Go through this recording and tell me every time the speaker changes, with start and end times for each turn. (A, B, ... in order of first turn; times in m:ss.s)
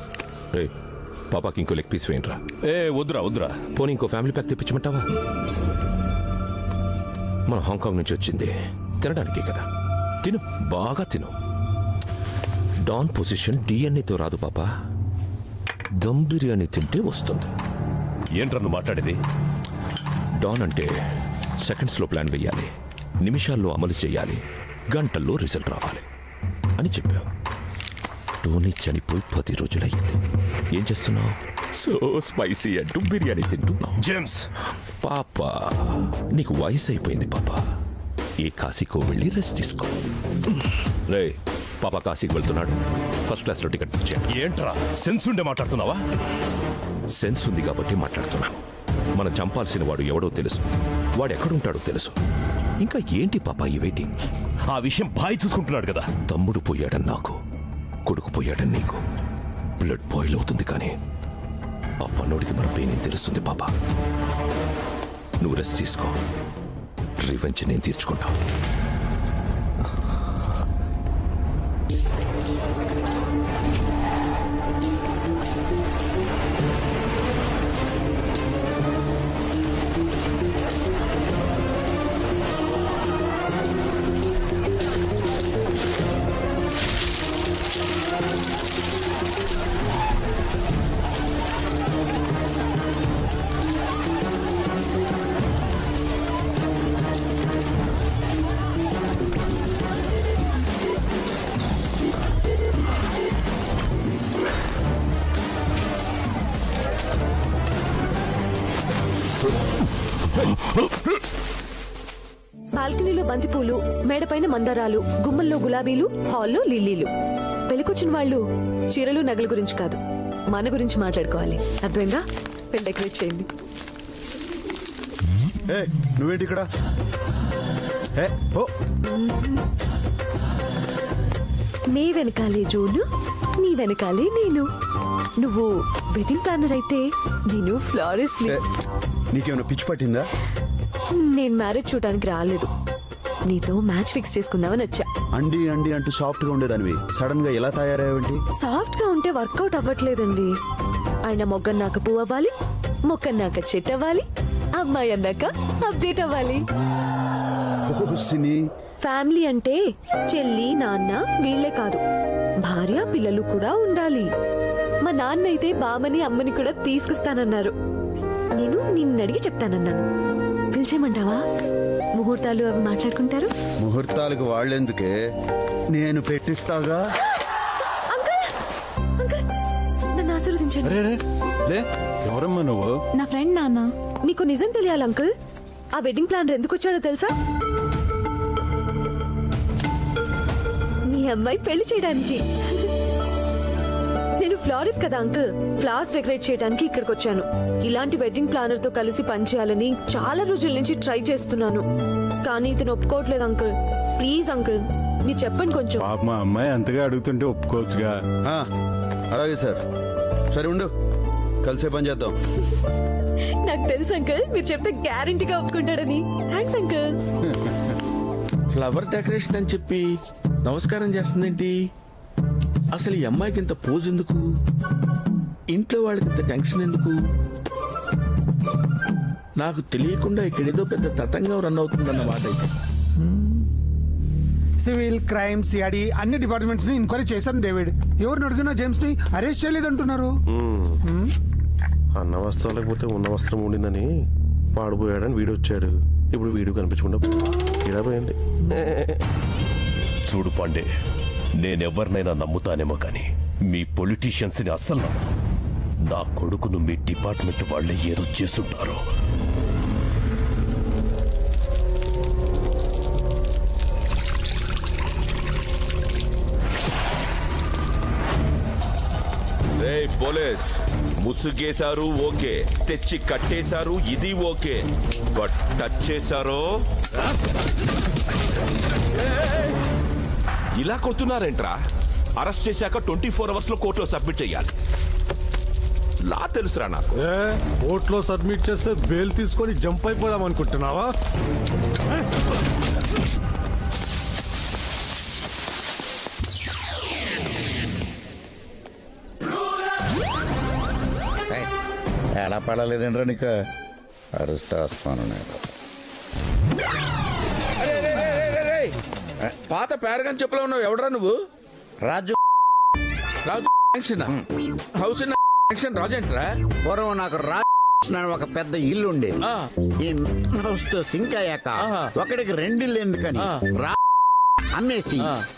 0:01.3-0:05.1 A
0:07.5-0:09.7 A
0:10.2-0:11.3 A
0:12.8-0:14.7 A
0:16.0-0:17.5 A
0:18.4-0:19.2 B
0:20.4-0:20.9 A
0:21.6-0:22.7 A
0:23.2-0:26.0 A
0:26.8-0:27.3 A
0:28.4-0:30.2 A
0:30.7-0:34.0 A
0:34.0-0:34.4 B
0:35.0-0:37.6 A
0:38.4-0:40.0 A
0:41.1-0:44.4 A
0:44.4-0:45.9 B
0:47.1-0:48.6 A
0:49.2-0:50.6 A
0:51.2-0:52.2 A
0:52.8-0:54.1 A
0:54.7-0:56.1 B
0:56.1-0:57.4 A
0:58.1-0:59.0 A
0:59.8-1:00.9 A
1:02.0-1:03.7 A
1:05.4-1:06.2 A
1:07.2-1:08.3 A
1:52.8-1:57.1 C
1:57.7-2:00.0 C
2:00.5-2:03.5 C
2:05.7-2:06.7 D
2:08.2-2:08.7 D
2:09.1-2:09.5 C
2:11.9-2:13.1 C
2:13.6-2:14.7 C
2:15.4-2:18.6 C
2:19.3-2:20.3 D
2:21.1-2:22.7 C
2:23.5-2:25.1 C
2:25.3-2:28.4 D
2:28.6-2:30.5 C
2:31.2-2:32.5 C
2:33.1-2:34.2 C
2:34.8-2:36.6 C
2:37.9-2:38.6 D
2:39.0-2:42.0 C
2:42.6-2:44.3 C
2:45.1-2:47.7 C
2:48.6-2:50.0 C
2:50.7-2:51.4 C
2:52.2-2:53.5 C
2:53.8-2:55.1 D
2:55.9-2:57.0 D
2:58.1-2:58.5 C
2:59.2-2:59.4 C
3:00.2-3:01.0 C
3:01.7-3:02.9 E
3:03.2-3:05.3 C
3:06.0-3:07.3 C
3:11.1-3:12.9 C
3:14.4-3:21.8 C
3:22.4-3:26.1 C
3:26.0-3:28.2 E
3:29.3-3:29.8 D
3:30.5-3:30.9 D
3:31.6-3:32.3 D
3:33.6-3:37.1 C
3:38.7-3:40.1 F
3:40.6-3:41.9 F
3:42.9-3:44.5 F
3:45.7-3:47.2 F
3:49.6-3:52.7 F
3:54.8-4:00.4 G
4:00.5-4:01.0 H
4:02.1-4:04.2 H
4:04.8-4:07.2 H
4:07.8-4:09.1 H
4:10.3-4:10.8 B
4:11.6-4:15.2 B
4:16.1-4:19.0 B
4:29.8-4:36.8 A
4:40.8-4:41.8 A
4:42.4-4:44.7 A
4:46.2-4:47.3 A
4:47.3-4:51.1 E
5:02.3-5:03.6 I
5:04.4-5:05.6 I
5:07.8-5:08.9 F
5:09.7-5:11.4 F
5:12.0-5:12.4 I
5:13.4-5:14.3 F
5:14.9-5:16.5 F
5:16.8-5:19.4 I
5:20.0-5:23.9 I
5:21.8-5:22.1 F
5:23.4-5:23.6 F
5:24.8-5:25.4 I